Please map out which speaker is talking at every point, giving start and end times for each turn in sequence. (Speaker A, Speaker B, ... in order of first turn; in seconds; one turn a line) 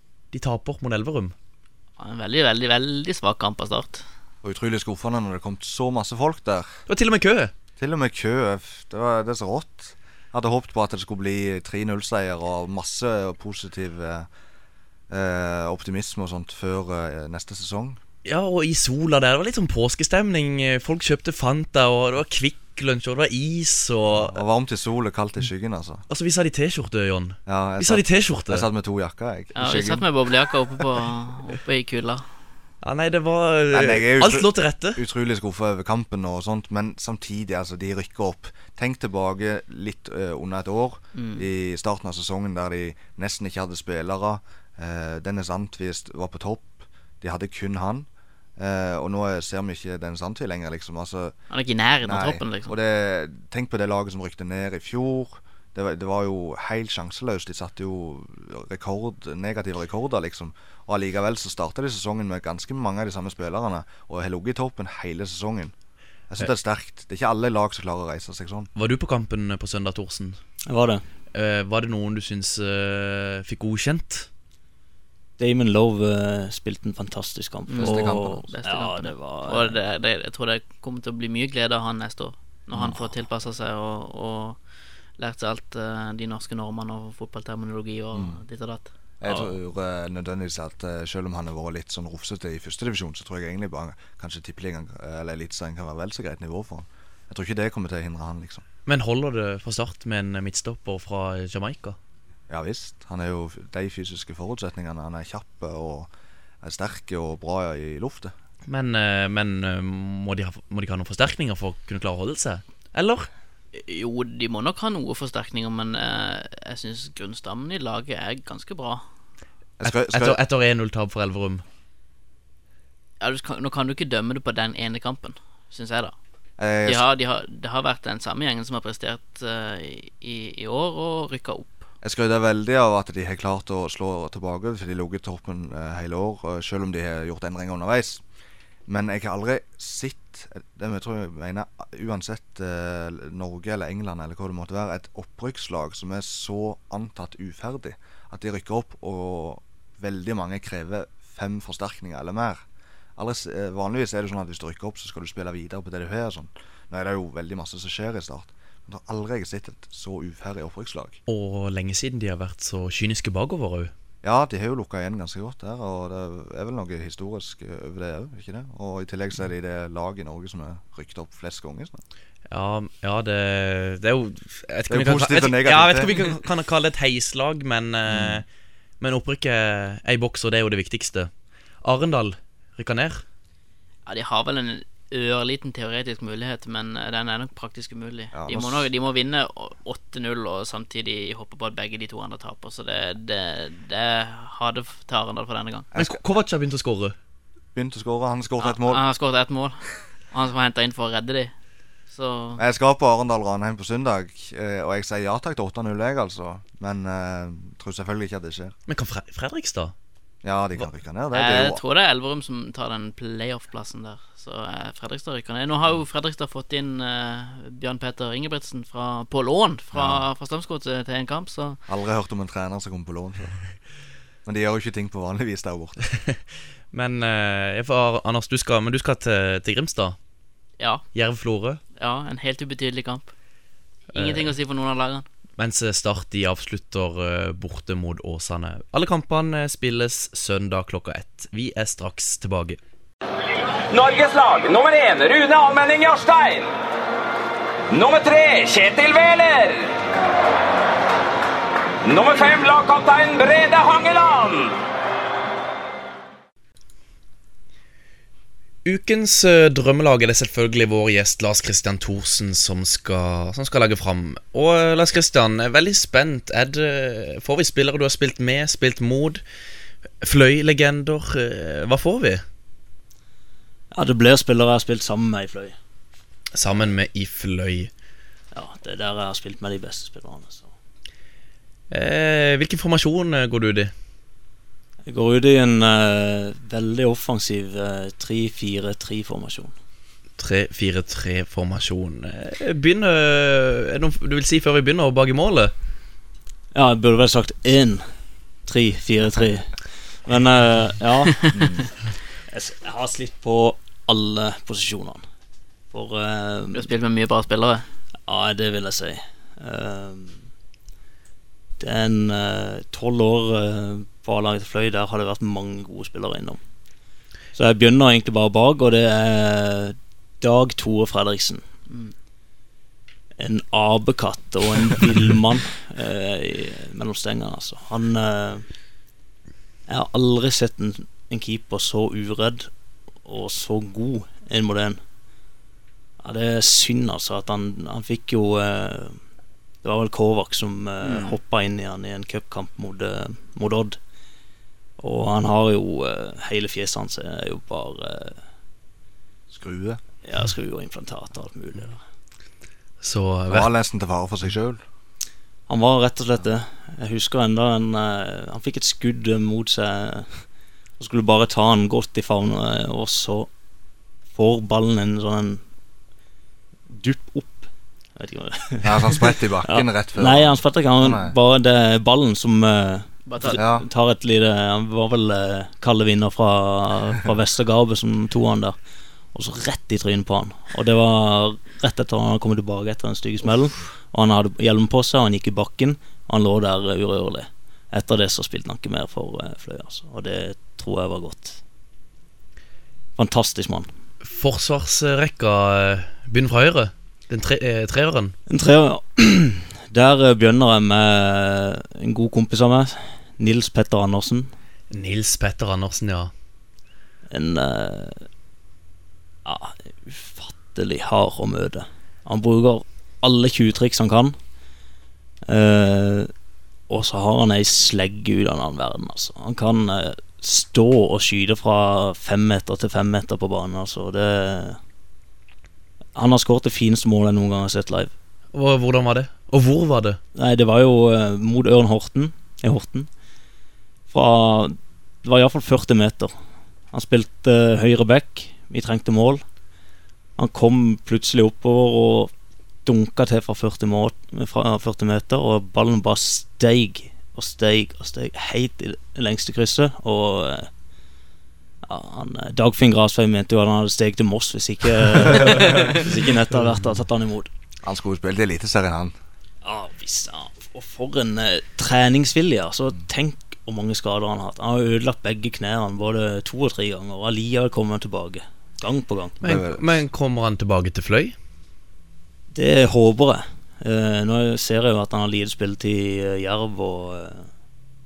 Speaker A: 0.3-1.3
Speaker B: 2.0-4.0
Speaker C: 4.4-6.8
Speaker A: 6.9-7.5
Speaker C: 7.8-14.3
Speaker C: 15.1-18.0
Speaker A: 18.2-24.4
Speaker C: 24.1-26.0
Speaker A: 26.1-28.7
Speaker C: 27.5-30.1
Speaker B: 29.6-32.2
Speaker A: 32.8-35.0
Speaker C: 33.7-51.4
Speaker B: 41.1-41.5
Speaker B: 51.5-52.7
Speaker C: 52.0-65.7
Speaker C: 66.3-68.7
Speaker A: 68.7-70.4
Speaker D: 70.7-71.0
Speaker A: 71.3-74.3
Speaker D: 75.4-79.8
Speaker B: 77.7-84.6
Speaker C: 77.8-78.4
Speaker C: 82.7-83.1
Speaker B: 85.2-88.9
Speaker C: 88.1-88.4
Speaker C: 89.2-98.6
Speaker A: 98.8-102.0
Speaker C: 102.5-106.1
Speaker C: 106.6-108.3
Speaker A: 108.7-113.3
Speaker B: 113.7-119.0
Speaker C: 119.8-120.4
Speaker A: 119.8-121.6
Speaker B: 123.2-126.1
Speaker C: 126.6-127.0
Speaker B: 126.8-131.8
Speaker C: 132.0-138.2
Speaker C: 138.9-152.6
Speaker C: 153.2-161.2
Speaker A: 161.3-163.9
Speaker C: 164.2-172.0
Speaker A: 172.5-178.4
Speaker C: 174.9-176.3
Speaker C: 178.1-178.4
Speaker A: 179.0-181.3
Speaker A: 181.8-183.2
Speaker B: 184.1-195.9
Speaker C: 188.3-188.9
Speaker C: 195.9-196.2
Speaker A: 195.9-197.1
Speaker C: 197.7-199.0
Speaker B: 198.6-201.5
Speaker B: 202.1-202.6
Speaker C: 202.6-208.8
Speaker A: 208.9-209.9
Speaker C: 210.4-211.8
Speaker B: 211.3-221.8
Speaker C: 219.9-220.3
Speaker C: 221.9-223.6
Speaker C: 224.4-226.0
Speaker A: 226.9-230.2
Speaker A: 231.1-231.8
Speaker B: 232.0-233.3
Speaker A: 234.1-234.5
Speaker B: 234.1-235.2
Speaker A: 235.6-242.8
Speaker E: 243.9-246.7
Speaker E: 247.9-249.9
Speaker E: 252.0-254.7
Speaker A: 258.8-269.4
Speaker A: 270.2-272.4
Speaker D: 273.9-275.8
Speaker A: 276.5-277.9
Speaker D: 278.5-280.7
Speaker A: 281.9-283.9
Speaker D: 285.1-289.7
Speaker A: 290.4-295.7
Speaker D: 296.7-298.1
Speaker D: 298.6-301.5
Speaker C: 301.6-301.8
Speaker D: 302.5-305.2
Speaker D: 305.9-306.9
Speaker B: 306.7-307.9
Speaker D: 308.3-310.5
Speaker D: 311.8-316.6
Speaker D: 317.6-321.6
Speaker B: 321.9-322.1
Speaker D: 323.4-328.6
Speaker D: 329.9-332.7
Speaker D: 333.2-335.0
Speaker D: 336.2-339.2
Speaker D: 339.8-344.0
Speaker D: 345.0-348.4
Speaker C: 349.5-350.0
Speaker D: 350.2-352.0
Speaker A: 353.0-353.7
Speaker C: 353.5-354.8
Speaker D: 355.7-360.4
Speaker D: 361.0-363.5
Speaker D: 364.3-365.6
Speaker D: 366.9-378.8
Speaker C: 368.8-371.3
Speaker B: 373.2-373.6
Speaker C: 373.5-373.8
Speaker D: 379.3-391.6
Speaker D: 393.2-393.9
Speaker A: 394.2-398.4
Speaker D: 398.5-404.5
Speaker A: 404.9-406.3
Speaker D: 407.3-408.3
Speaker D: 409.4-414.3
Speaker D: 415.5-416.3
Speaker D: 416.9-424.8
Speaker D: 426.1-428.1
Speaker A: 428.5-430.2
Speaker D: 430.3-433.1
Speaker D: 434.1-436.3
Speaker D: 436.9-439.4
Speaker D: 440.4-442.3
Speaker D: 442.8-450.7
Speaker D: 451.8-457.5
Speaker C: 457.8-459.1
Speaker D: 459.6-469.4
Speaker C: 469.4-470.0
Speaker A: 469.4-471.4
Speaker D: 472.5-477.5